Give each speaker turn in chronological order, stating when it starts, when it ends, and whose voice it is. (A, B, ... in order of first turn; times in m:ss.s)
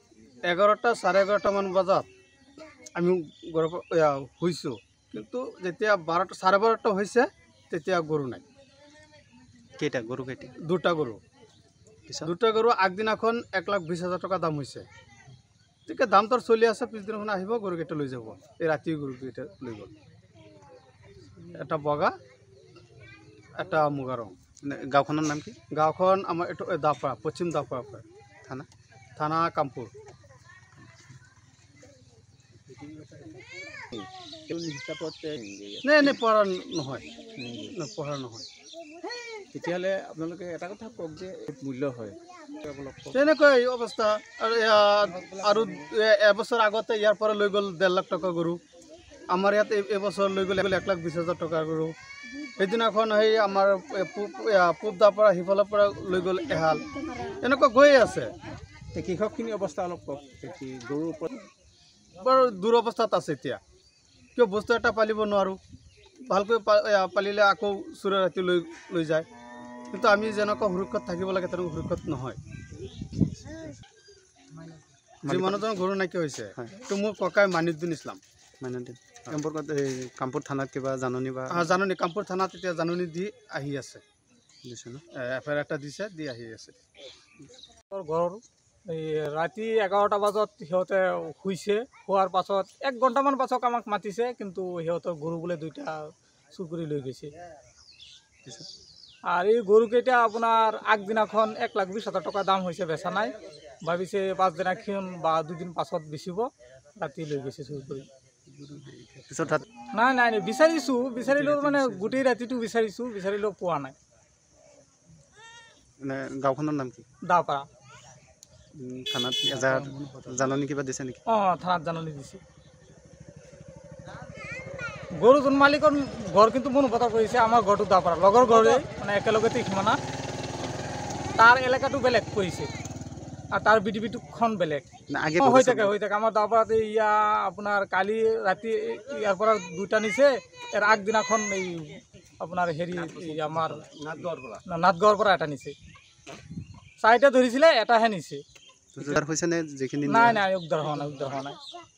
0:00.4-0:02.1 A
0:03.0-0:08.4 A
0:09.8-0:10.5 B
0:10.6-0:11.2 A
0:12.2-0:14.8 A
0:15.8-0:19.9 A
0:21.4-0:22.1 A
0:23.6-0:24.3 A
0:24.6-0:25.6 B
0:25.7-0:28.0 A
0:29.2-0:29.9 A
0:30.8-0:31.0 B
0:32.7-0:33.3 C
0:33.9-0:36.1 C
0:35.8-0:38.5 A
0:37.4-0:37.7 C
0:39.4-0:43.1 C
0:43.1-0:48.6 A
0:49.3-0:51.9 A
0:52.6-0:58.3 A
0:58.9-1:01.4 C
1:02.2-1:03.6 A
1:04.3-1:05.6 A
1:06.3-1:09.3 A
1:09.9-1:12.4 A
1:15.2-1:15.8 B
1:15.2-1:18.2 A
1:18.6-1:21.7 B
1:21.5-1:24.0 A
1:24.6-1:25.0 B
1:25.1-1:26.8 A
1:27.9-1:37.3 D
1:39.3-1:48.1 D
1:48.5-1:49.6 B
1:49.9-1:54.0 D
1:56.0-1:57.0 B
1:57.2-1:57.7 D
1:58.7-2:01.2 B
2:01.3-2:02.4 D
2:05.1-2:10.0 D
2:11.4-2:12.7 D
2:13.5-2:14.9 D
2:15.1-2:15.9 B
2:15.4-2:23.9 D
2:23.9-2:24.6 C
2:24.7-2:25.7 D
2:27.0-2:28.4 D
2:28.9-2:30.4 B
2:30.0-2:31.6 D